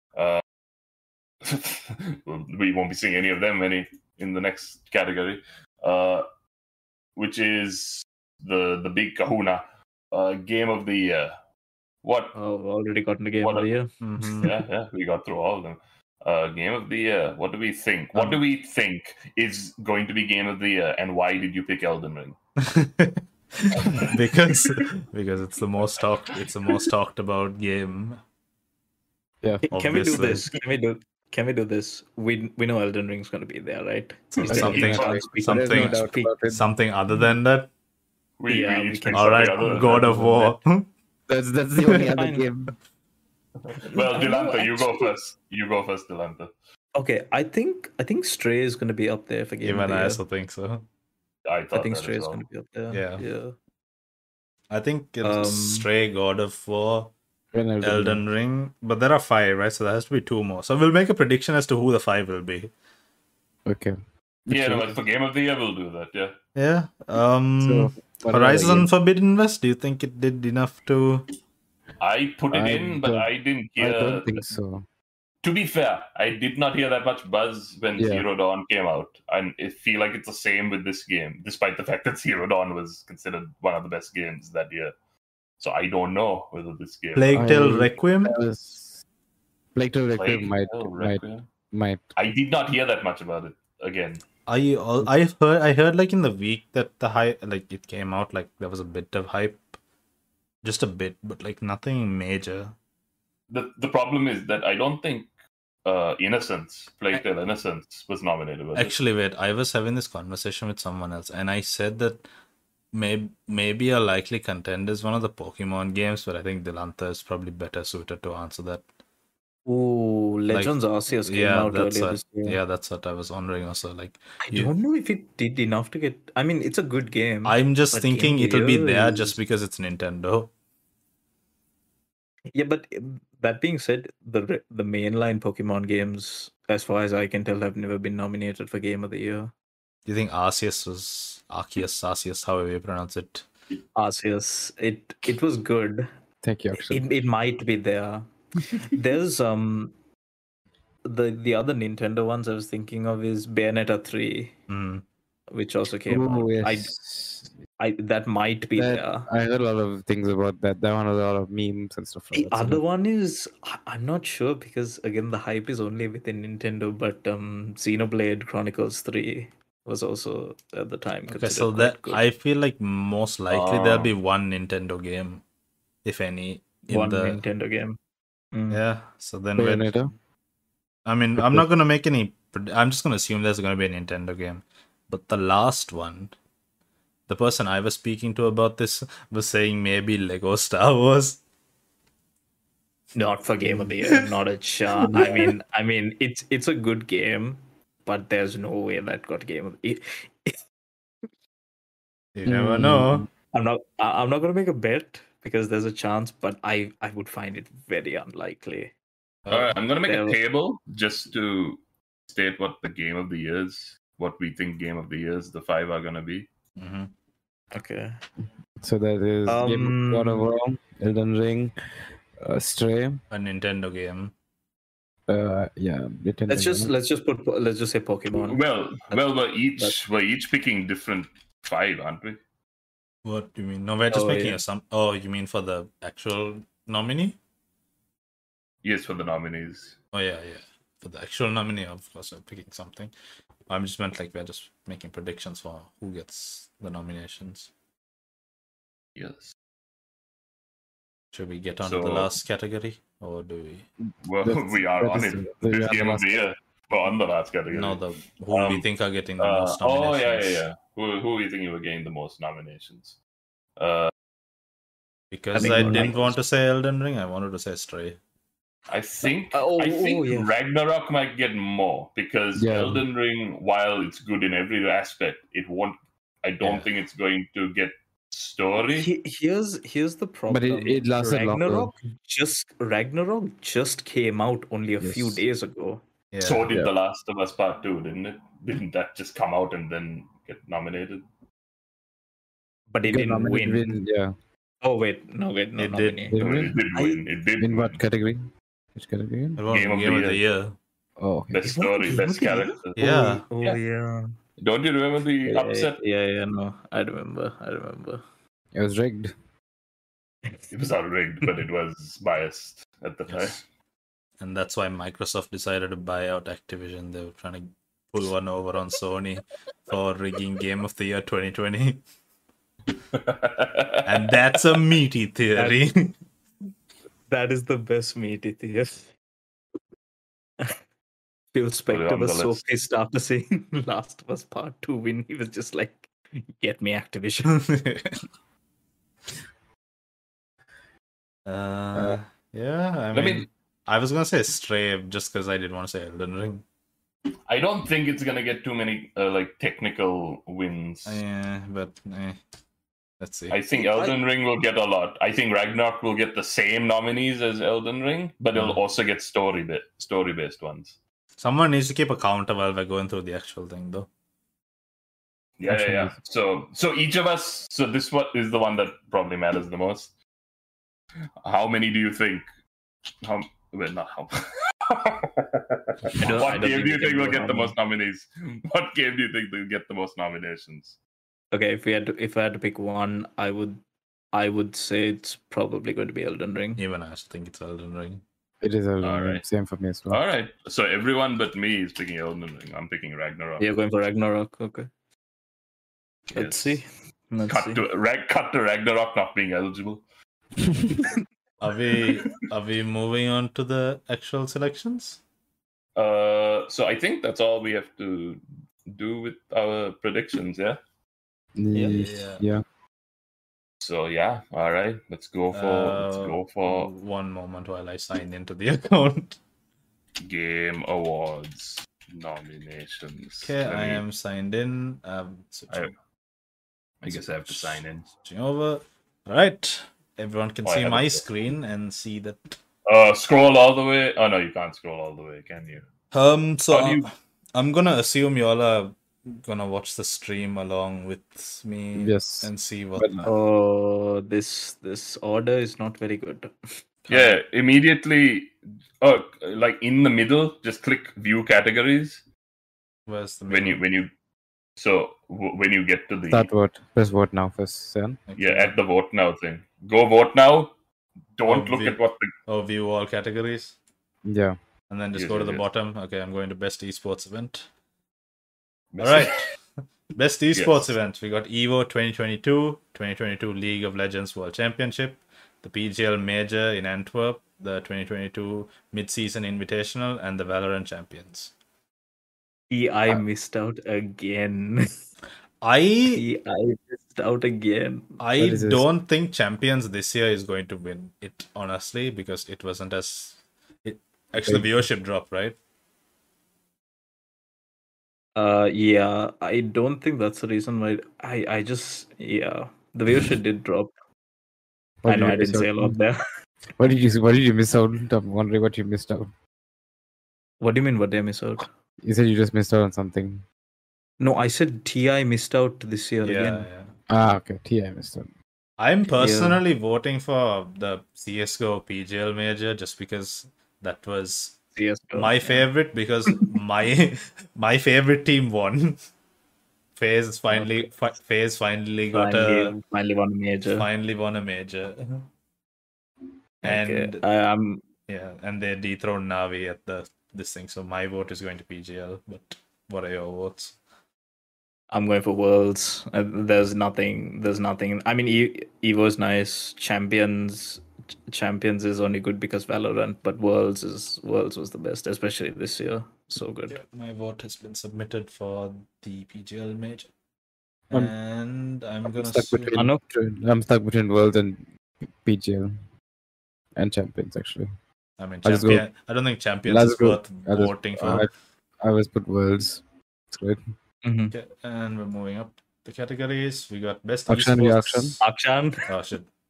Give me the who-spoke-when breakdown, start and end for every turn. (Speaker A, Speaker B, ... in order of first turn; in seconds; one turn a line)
Speaker A: 0.2-0.4
Speaker A: 1.4-6.2
Speaker A: 7.2-11.4
Speaker A: 12.0-12.3
Speaker B: 12.3-13.9
Speaker A: 13.4-13.7
Speaker C: 14.0-14.5
Speaker A: 14.4-22.4
Speaker C: 18.1-18.4
Speaker C: 22.6-28.2
Speaker A: 23.7-24.8
Speaker D: 29.4-29.7
Speaker B: 29.7-36.3
Speaker C: 29.7-30.5
Speaker C: 34.3-37.7
Speaker D: 34.5-36.7
Speaker A: 34.5-35.2
Speaker A: 38.4-40.5
Speaker B: 38.5-40.5
Speaker C: 39.1-40.9
Speaker D: 41.3-42.8
Speaker C: 41.9-42.2
Speaker B: 41.9-42.5
Speaker A: 43.6-46.5
Speaker B: 43.8-45.1
Speaker B: 47.0-50.2
Speaker C: 49.6-50.9
Speaker A: 51.5-52.4
Speaker B: 51.7-53.5
Speaker C: 52.9-53.2
Speaker C: 54.7-57.1
Speaker B: 55.2-55.9
Speaker D: 57.5-58.2
Speaker C: 57.8-62.7
Speaker D: 63.7-64.0
Speaker D: 64.5-65.0
Speaker A: 64.5-66.3
Speaker C: 66.6-71.3
Speaker D: 67.6-68.9
Speaker A: 72.0-74.5
Speaker D: 72.5-74.8
Speaker A: 75.4-84.9
Speaker D: 78.0-78.2
Speaker A: 85.6-87.6
Speaker C: 87.2-88.4
Speaker D: 87.3-89.0
Speaker D: 89.8-92.0
Speaker A: 90.2-91.5
Speaker A: 92.2-94.2
Speaker C: 94.5-99.7
Speaker C: 100.6-102.8
Speaker A: 103.5-105.3
Speaker A: 105.8-109.0
Speaker C: 108.8-112.2
Speaker C: 112.9-118.9
Speaker B: 119.7-122.6
Speaker C: 120.5-124.7
Speaker B: 124.4-129.4
Speaker C: 127.4-130.5
Speaker B: 132.5-139.5
Speaker C: 140.1-143.5
Speaker B: 144.0-146.1
Speaker D: 146.4-147.1
Speaker B: 146.8-149.9
Speaker B: 151.1-154.6
Speaker C: 154.7-155.1
Speaker B: 155.5-156.9
Speaker D: 156.1-157.5
Speaker B: 157.8-159.3
Speaker D: 158.8-162.8
Speaker B: 162.3-172.2
Speaker C: 171.3-175.4
Speaker A: 173.5-174.1
Speaker C: 176.0-177.4
Speaker B: 176.9-178.0
Speaker B: 178.5-178.8
Speaker C: 178.7-180.0
Speaker D: 179.6-180.1
Speaker C: 181.1-186.3
Speaker D: 181.4-181.7
Speaker C: 187.3-191.4
Speaker B: 193.2-200.6
Speaker C: 195.1-195.4
Speaker C: 202.3-203.3
Speaker D: 202.5-203.3
Speaker B: 203.5-208.9
Speaker C: 209.5-209.8
Speaker A: 209.5-216.5
Speaker B: 210.1-210.4
Speaker C: 216.8-217.1
Speaker B: 217.7-218.2
Speaker D: 218.8-221.7
Speaker B: 219.5-220.5
Speaker D: 222.4-223.2
Speaker C: 223.3-224.3
Speaker D: 225.3-226.9
Speaker B: 226.5-228.6
Speaker A: 228.3-232.4
Speaker C: 233.2-237.4
Speaker B: 234.1-234.6
Speaker A: 238.8-240.0
Speaker C: 240.1-243.1
Speaker C: 243.7-247.7
Speaker A: 249.2-249.5
Speaker C: 251.3-253.9
Speaker A: 251.8-252.3
Speaker A: 254.2-258.9
Speaker D: 254.4-256.4
Speaker C: 257.7-260.6
Speaker A: 259.4-263.2
Speaker A: 263.8-264.1
Speaker C: 265.3-268.2
Speaker B: 265.6-266.3
Speaker A: 265.6-266.2
Speaker D: 265.6-266.1
Speaker A: 268.9-279.1
Speaker B: 269.5-270.5
Speaker D: 272.6-273.1
Speaker B: 278.9-286.0
Speaker D: 280.5-281.9
Speaker D: 285.0-285.4
Speaker C: 286.3-286.7
Speaker A: 286.4-291.2
Speaker B: 292.9-294.0
Speaker D: 293.1-294.3
Speaker B: 294.8-296.4
Speaker C: 295.8-296.3
Speaker D: 296.3-296.8
Speaker A: 296.4-298.0
Speaker B: 296.9-297.2
Speaker D: 297.6-299.6
Speaker C: 299.6-300.8
Speaker A: 299.7-300.4
Speaker D: 301.2-301.7
Speaker A: 301.5-303.8
Speaker B: 301.6-304.3
Speaker C: 303.0-303.5
Speaker A: 304.6-306.0
Speaker B: 305.5-308.2
Speaker D: 308.7-309.3
Speaker A: 310.7-313.6
Speaker C: 313.3-313.6
Speaker C: 314.4-322.0
Speaker A: 323.1-324.3
Speaker C: 324.1-326.1
Speaker B: 325.6-325.8
Speaker B: 327.3-329.1
Speaker B: 331.5-337.6
Speaker A: 331.9-332.6
Speaker C: 337.5-338.2
Speaker C: 341.5-346.6
Speaker A: 343.1-343.5
Speaker A: 347.5-351.2
Speaker C: 351.1-352.4
Speaker C: 353.2-353.6
Speaker A: 353.5-361.0
Speaker B: 353.8-354.2
Speaker C: 358.6-358.8
Speaker C: 361.4-364.1
Speaker A: 365.6-370.1
Speaker D: 365.8-366.1
Speaker A: 371.4-372.4
Speaker A: 373.2-381.0
Speaker B: 376.2-377.8
Speaker B: 381.5-383.8
Speaker B: 384.3-386.8
Speaker C: 386.8-388.2
Speaker D: 388.6-390.2
Speaker A: 389.0-389.4
Speaker A: 390.1-393.7
Speaker B: 393.6-394.9
Speaker A: 396.3-396.8
Speaker B: 396.3-397.8
Speaker A: 397.5-400.0
Speaker C: 401.6-405.2
Speaker A: 401.9-402.3
Speaker A: 406.0-410.8
Speaker D: 411.6-412.6
Speaker C: 411.7-412.4
Speaker A: 413.8-416.9
Speaker C: 415.5-419.4
Speaker A: 420.2-424.0
Speaker C: 423.4-425.9
Speaker A: 427.0-428.1
Speaker C: 427.1-432.6
Speaker A: 430.6-431.2
Speaker A: 432.9-435.9
Speaker C: 436.1-443.3
Speaker A: 436.7-437.1
Speaker D: 441.9-443.3
Speaker B: 443.3-446.5
Speaker C: 447.1-447.4
Speaker A: 447.1-452.2
Speaker C: 453.1-453.8
Speaker A: 453.5-454.1
Speaker A: 454.8-456.5
Speaker D: 456.3-458.2
Speaker C: 458.3-458.8
Speaker A: 458.4-460.7
Speaker A: 461.4-462.3
Speaker C: 461.5-463.8
Speaker D: 464.2-464.6
Speaker C: 464.9-467.7
Speaker A: 465.1-465.6
Speaker A: 468.9-469.4
Speaker C: 469.0-469.5
Speaker C: 470.1-481.5
Speaker A: 470.5-470.9
Speaker B: 482.7-484.9
Speaker C: 485.6-486.2
Speaker B: 486.1-488.2
Speaker C: 488.2-495.6
Speaker D: 488.4-488.9
Speaker B: 498.4-503.9
Speaker D: 505.0-506.0
Speaker B: 505.1-506.2
Speaker D: 506.8-509.3
Speaker B: 510.6-511.7
Speaker D: 512.0-513.5
Speaker B: 514.2-516.7
Speaker C: 516.2-516.9
Speaker D: 517.1-518.3
Speaker C: 518.8-524.6
Speaker B: 519.1-519.6
Speaker B: 524.8-525.7
Speaker C: 525.2-529.0
Speaker C: 530.0-532.8
Speaker B: 530.5-530.9
Speaker B: 532.1-533.9
Speaker C: 533.7-535.3
Speaker C: 536.6-537.2
Speaker B: 536.6-537.9
Speaker C: 538.1-543.8
Speaker B: 544.9-556.8
Speaker C: 556.7-560.1
Speaker C: 560.9-562.7
Speaker D: 562.1-565.8
Speaker B: 562.8-563.0
Speaker D: 566.8-567.7
Speaker C: 568.2-571.3
Speaker D: 568.4-568.9
Speaker D: 569.7-571.3
Speaker D: 571.8-573.6
Speaker B: 574.0-574.3
Speaker C: 574.3-578.2
Speaker D: 577.3-578.2
Speaker B: 578.2-578.9
Speaker C: 578.9-579.3